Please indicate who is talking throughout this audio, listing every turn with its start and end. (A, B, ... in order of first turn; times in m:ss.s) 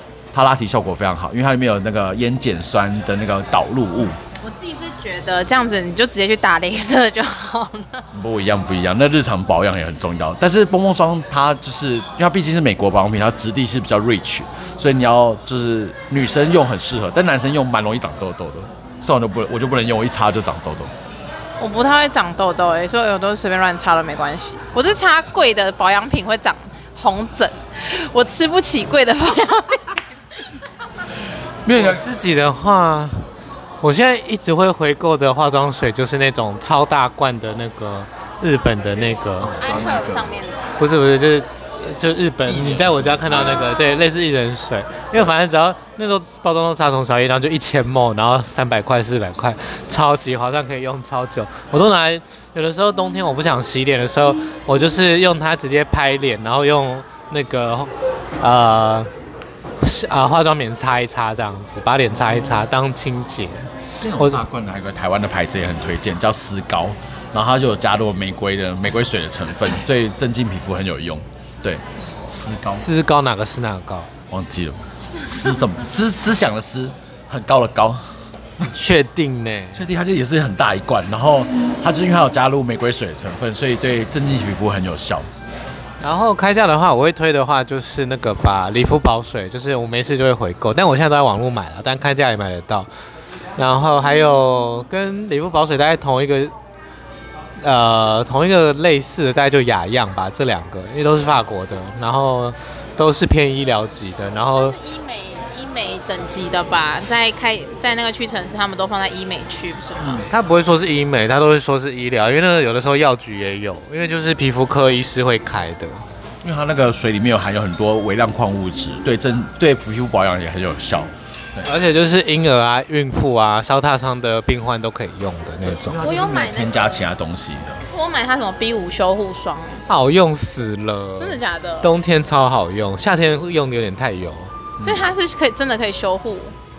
0:00.3-0:04.2 A
0:04.4-0:08.0 B
0:08.1-0:20.9 A
0:21.6-0:30.0 B
0:31.6-0:32.0 A
0:31.7-0:33.3 C
0:33.8-0:39.6 C
0:39.4-0:40.4 A
0:39.6-0:40.8 B
0:40.8-0:59.1 C
0:42.4-0:43.6 A
0:59.8-1:04.4 C
1:02.3-1:02.6 A
1:04.0-1:12.9 A
1:12.7-1:14.1 C
1:14.3-1:18.7 A
1:18.7-1:19.8 C
1:19.7-1:25.3 A
1:26.0-1:32.9 C
1:33.6-1:36.5 C
1:37.6-1:44.8 C
1:44.6-1:50.2 B
1:50.2-1:56.0 C
1:56.4-2:01.7 A
2:01.6-2:06.0 C
2:05.7-2:07.8 A
2:05.9-2:07.1 B
2:07.9-2:09.8 B
2:09.9-2:14.5 C
2:11.2-2:11.9 B
2:14.8-2:15.1 A
2:14.8-2:16.5 B